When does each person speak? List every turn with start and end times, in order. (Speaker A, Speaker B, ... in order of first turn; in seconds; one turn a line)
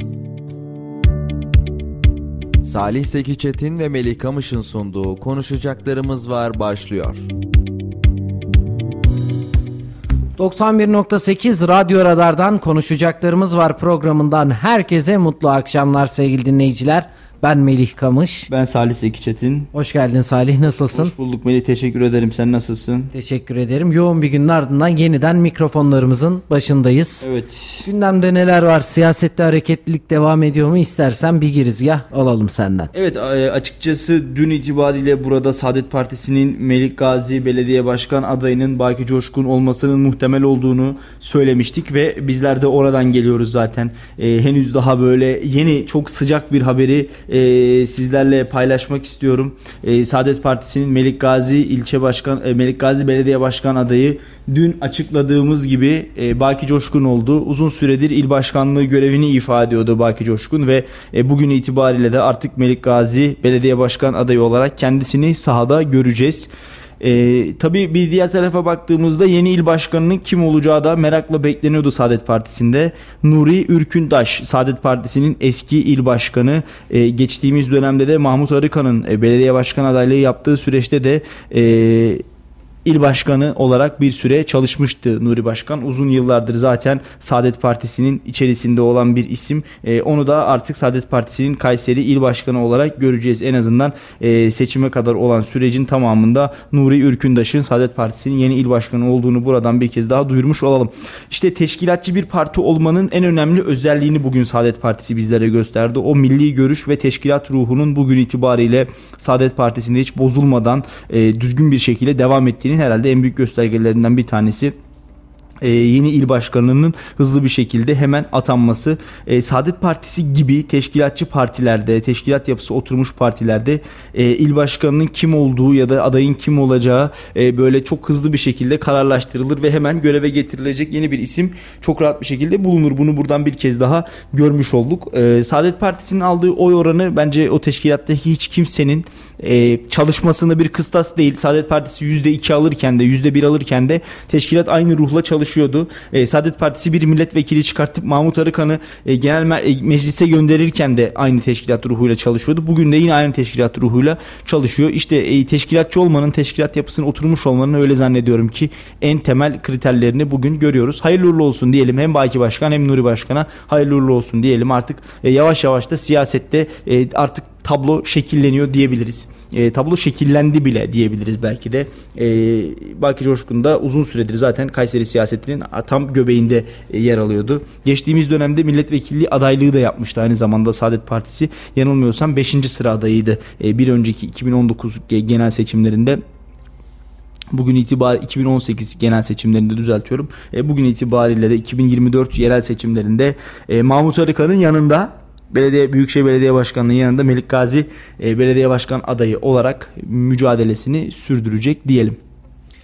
Speaker A: 2.6-7.2
Speaker B: 10.4-18.5
Speaker C: 18.5-19.7
Speaker B: 19.7-21.1
Speaker C: 20.7-23.1
Speaker B: 23.1-27.3
Speaker C: 27.2-27.9
Speaker B: 27.8-32.9
Speaker C: 32.9-82.2
Speaker C: 82.8-114.7
Speaker C: 115.6-186.2
Speaker C: 187.5-202.2